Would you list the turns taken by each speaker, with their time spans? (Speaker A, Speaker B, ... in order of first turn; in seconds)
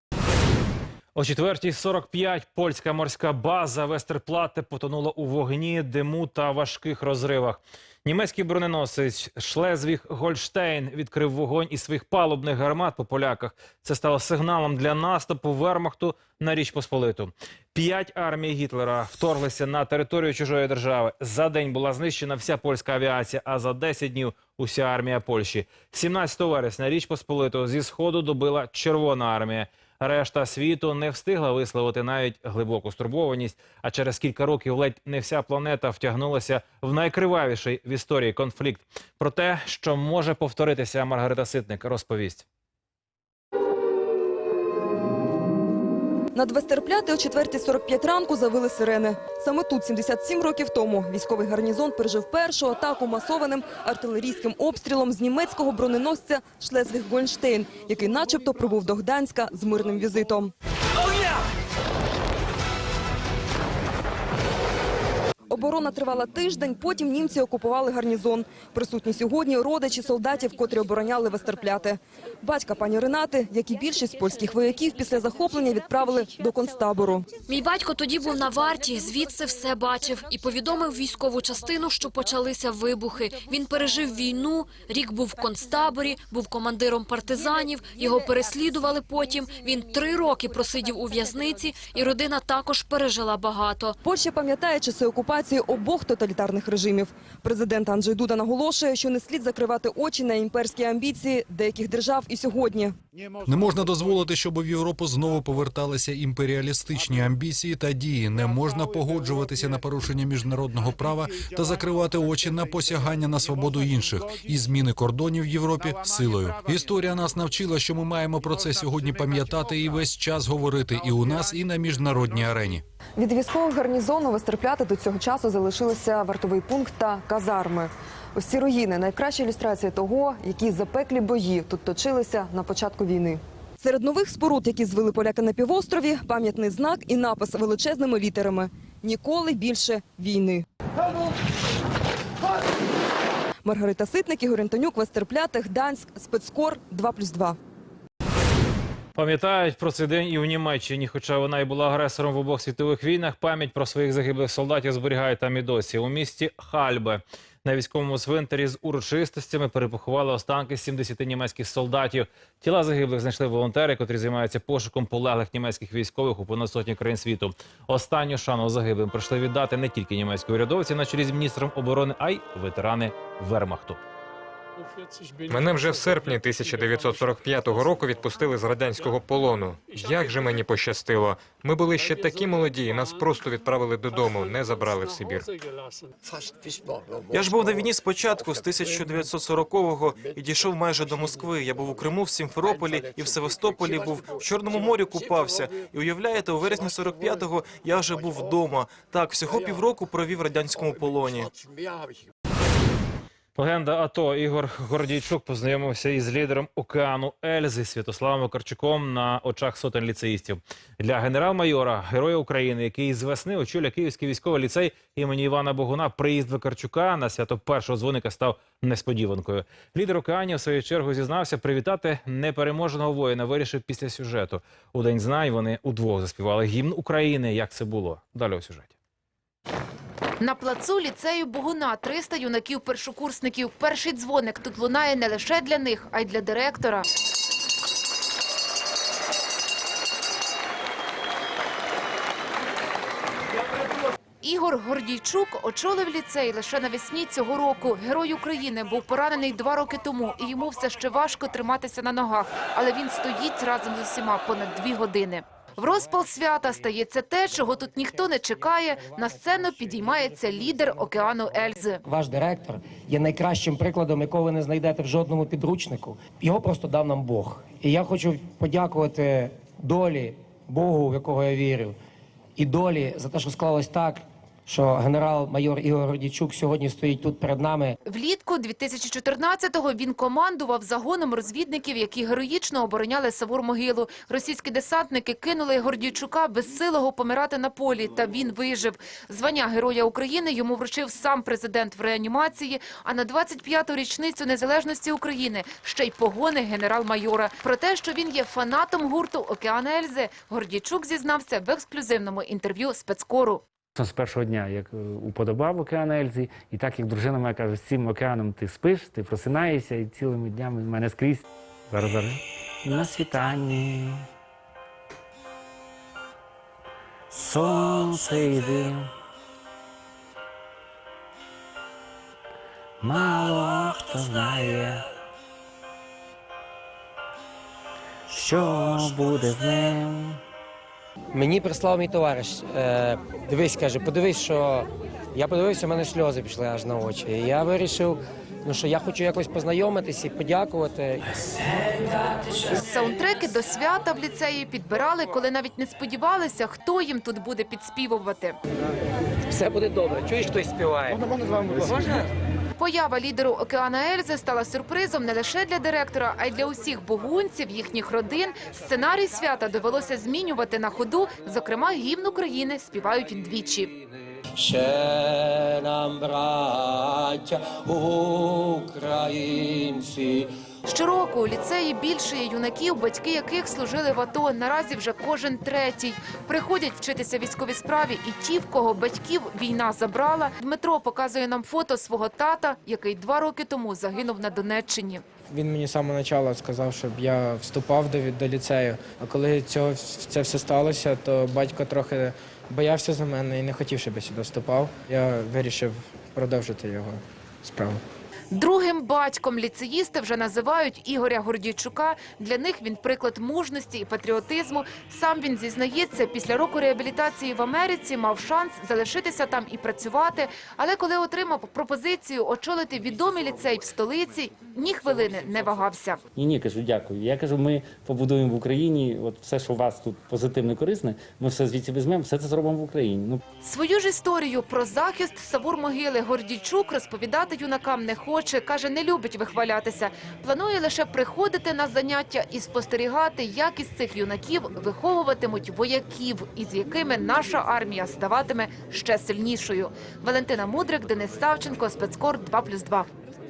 Speaker A: 1.1-42.4, 149.2-174.0, 203.6-228.9
Speaker B: 46.3-60.5, 65.5-77.3, 94.0-102.9, 123.2-140.6, 143.6-147.6
Speaker C: 77.5-94.0
Speaker D: 103.5-122.8
Speaker E: 175.5-185.4
Speaker F: 187.3-201.5
Speaker G: 230.4-237.0, 244.4-262.0, 278.0-303.6, 342.6-348.6, 352.8-363.9, 370.9-385.2, 398.5-416.2, 423.6-443.1
Speaker H: 262.1-271.9, 272.6-277.9, 331.3-341.2, 349.5-352.1
Speaker I: 304.0-314.2, 317.3-319.1, 323.0-325.0, 328.3-330.4, 416.4-423.4
Speaker J: 385.5-398.0